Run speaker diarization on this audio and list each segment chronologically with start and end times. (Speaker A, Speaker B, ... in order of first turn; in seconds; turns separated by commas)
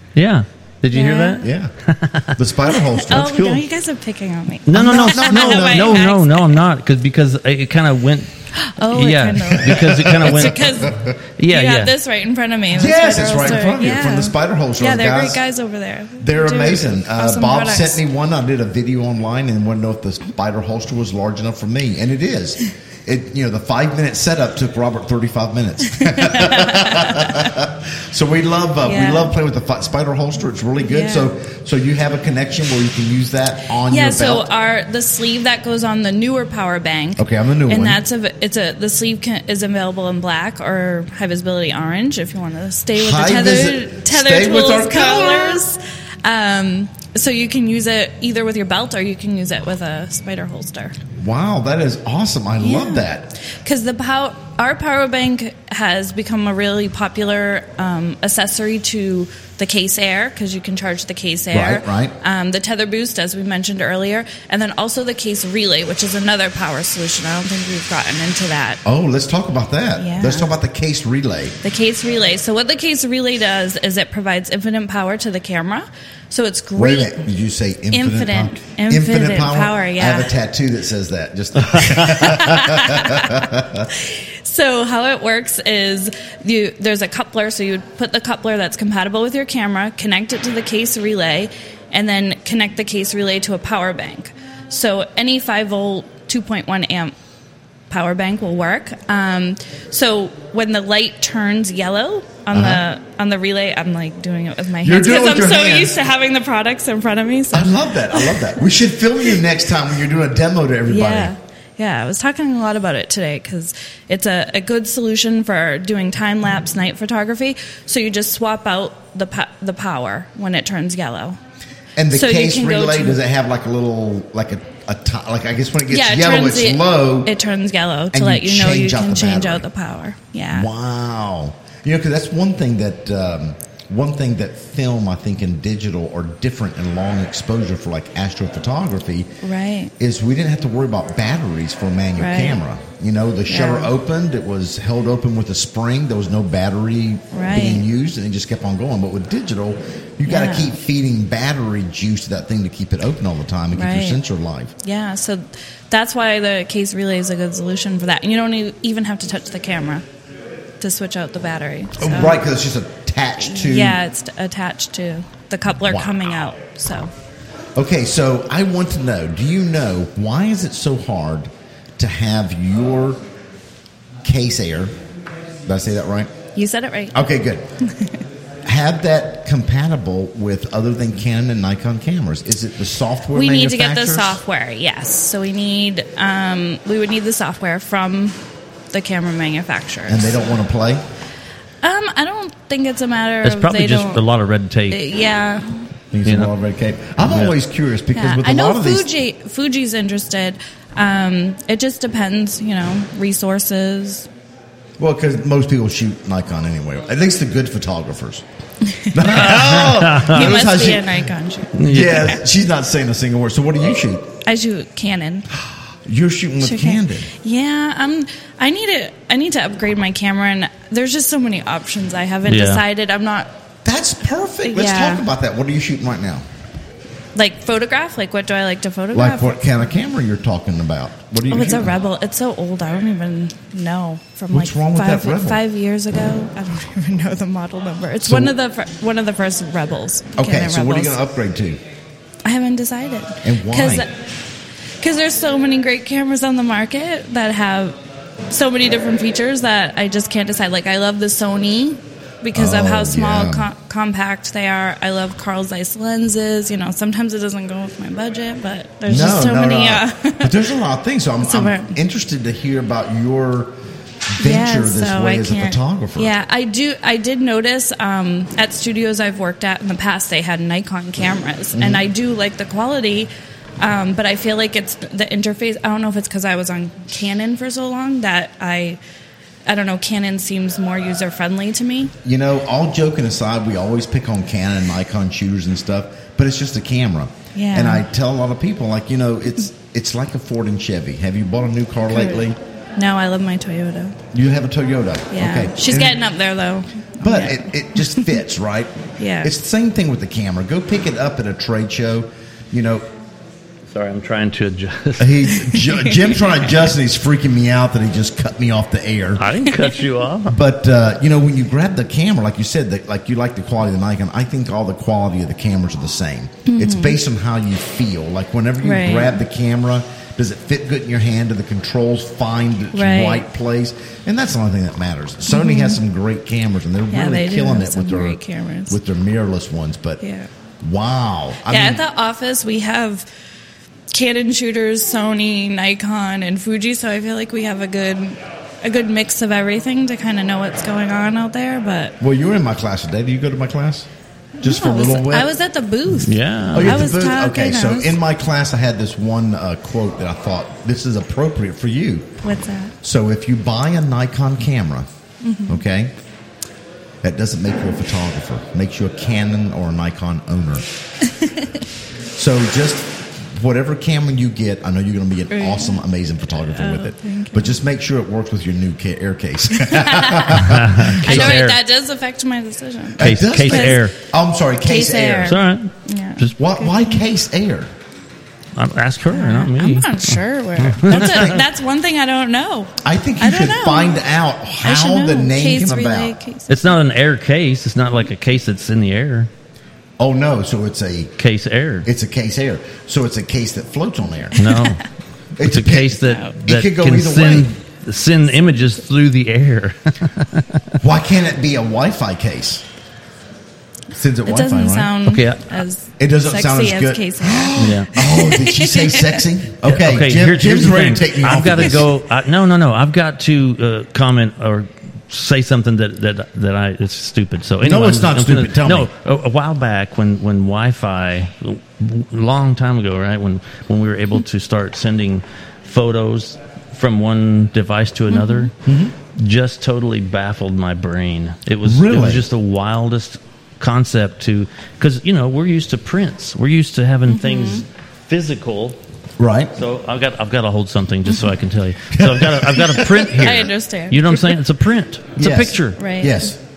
Speaker A: 0.1-2.4, Speaker B: 0.9-1.4, Speaker C: 1.4-1.7, Speaker C: 2.3-3.6, Speaker B: 2.9-6.6, Speaker A: 4.7-11.9, Speaker C: 4.7-6.1, Speaker B: 8.5-18.0, Speaker C: 9.5-11.2, Speaker C: 12.7-15.4, Speaker C: 16.2-34.5, Speaker B: 26.0-27.4, Speaker B: 28.8-29.3, Speaker B: 30.8-31.3, Speaker B: 33.9-51.0, Speaker C: 37.2-38.0, Speaker C: 42.9-45.6, Speaker C: 51.1-53.3, Speaker B: 52.6-68.8, Speaker C: 61.5-62.1, Speaker C: 68.8-71.6, Speaker B: 70.0-70.5, Speaker B: 71.6-77.2, Speaker C: 76.8-83.9, Speaker B: 77.9-80.3, Speaker B: 81.9-97.1, Speaker B: 97.9-108.6, Speaker C: 102.5-102.8, Speaker C: 104.8-106.0, Speaker C: 107.5-111.3, Speaker B: 110.9-121.4, Speaker C: 122.0-127.3, Speaker B: 122.1-123.2, Speaker B: 125.9-130.7, Speaker C: 128.1-129.7, Speaker C: 130.5-139.3, Speaker B: 139.4-139.9, Speaker C: 140.0-154.7, Speaker B: 142.2-142.6, Speaker B: 143.5-143.9, Speaker B: 147.3-147.8, Speaker B: 150.3-150.7, Speaker B: 153.7-154.2, Speaker B: 154.8-160.0, Speaker B: 160.8-162.4, Speaker C: 162.0-164.0, Speaker B: 163.4-167.1, Speaker C: 165.8-166.2, Speaker C: 167.8-173.2, Speaker C: 174.2-174.9, Speaker C: 175.6-176.3, Speaker B: 176.5-177.3, Speaker C: 177.1-177.7, Speaker C: 178.6-184.4, Speaker B: 183.3-188.4, Speaker B: 188.9-190.3, Speaker C: 190.1-191.0, Speaker B: 191.8-194.2, Speaker A: 193.4-195.0, Speaker B: 194.9-195.8, Speaker C: 196.1-199.1, Speaker A: 196.2-196.5, Speaker A: 197.2-197.5, Speaker B: 198.1-204.3, Speaker C: 205.0-208.4, Speaker B: 208.9-209.5, Speaker C: 209.1-211.2, Speaker A: 209.3-210.6, Speaker B: 210.2-211.8, Speaker A: 211.8-212.3, Speaker C: 211.8-214.3, Speaker B: 214.4-215.4, Speaker C: 215.5-217.3, Speaker B: 216.6-223.5, Speaker A: 222.5-222.8, Speaker C: 223.8-226.4, Speaker B: 224.7-225.2, Speaker B: 227.3-229.8, Speaker C: 229.1-231.9, Speaker B: 231.5-241.2, Speaker C: 234.5-235.6, Speaker C: 238.2-238.5, Speaker C: 240.4-241.8, Speaker B: 242.4-244.1, Speaker C: 243.4-244.0, Speaker B: 245.0-248.0, Speaker B: 248.5-260.6, Speaker C: 252.5-253.7, Speaker C: 259.1-263.7, Speaker B: 261.4-261.9, Speaker C: 264.3-266.3, Speaker B: 264.4-279.0, Speaker C: 271.7-272.0, Speaker B: 279.7-282.1, Speaker C: 282.2-292.6, Speaker B: 287.5-288.1, Speaker B: 292.1-292.4, Speaker B: 293.0-294.2, Speaker C: 294.3-296.2, Speaker B: 295.3-298.3, Speaker C: 297.2-303.1, Speaker B: 299.2-299.5, Speaker A: 303.9-305.4, Speaker C: 305.2-309.4, Speaker B: 305.5-306.3, Speaker A: 309.4-310.6, Speaker C: 310.4-330.2, Speaker B: 316.6-317.2, Speaker B: 318.8-319.4, Speaker B: 322.9-323.4, Speaker B: 325.5-326.0, Speaker B: 327.1-329.0, Speaker B: 330.2-330.5, Speaker C: 330.8-332.0, Speaker B: 331.7-333.3, Speaker B: 334.1-342.1, Speaker C: 342.2-344.1, Speaker C: 344.6-345.5, Speaker B: 344.6-348.1, Speaker A: 346.2-347.1, Speaker C: 346.7-352.3, Speaker B: 352.4-352.9, Speaker C: 353.0-355.1, Speaker B: 355.4-355.8, Speaker C: 355.7-356.1, Speaker C: 357.2-360.9, Speaker B: 361.4-361.7, Speaker C: 362.3-371.6, Speaker B: 365.5-366.0, Speaker B: 366.7-367.7, Speaker B: 369.8-374.0, Speaker A: 370.6-371.8, Speaker C: 373.2-375.6, Speaker A: 373.2-374.1, Speaker B: 374.8-377.2, Speaker A: 375.4-376.6, Speaker C: 376.6-377.9, Speaker A: 378.8-381.6, Speaker B: 379.3-384.2, Speaker C: 381.1-381.6, Speaker C: 383.0-386.3, Speaker B: 384.8-386.9, Speaker A: 386.7-389.5, Speaker C: 390.2-391.3, Speaker A: 391.4-392.1, Speaker C: 392.0-394.6, Speaker A: 394.6-395.1, Speaker B: 394.6-395.0, Speaker C: 395.6-397.7, Speaker A: 395.6-401.0, Speaker B: 396.2-396.6, Speaker C: 401.0-402.8, Speaker C: 404.1-405.2, Speaker B: 404.4-409.4, Speaker A: 405.2-405.6, Speaker C: 406.2-412.1, Speaker A: 407.8-408.1, Speaker A: 409.8-428.7, Speaker C: 417.8-419.1, Speaker B: 428.3-428.7, Speaker C: 428.8-429.1, Speaker A: 429.3-439.0, Speaker C: 431.8-432.5, Speaker B: 437.3-437.8, Speaker C: 439.4-439.7, Speaker A: 439.8-446.0, Speaker C: 442.1-443.6, Speaker B: 443.3-444.5, Speaker C: 445.4-446.6, Speaker B: 445.9-446.5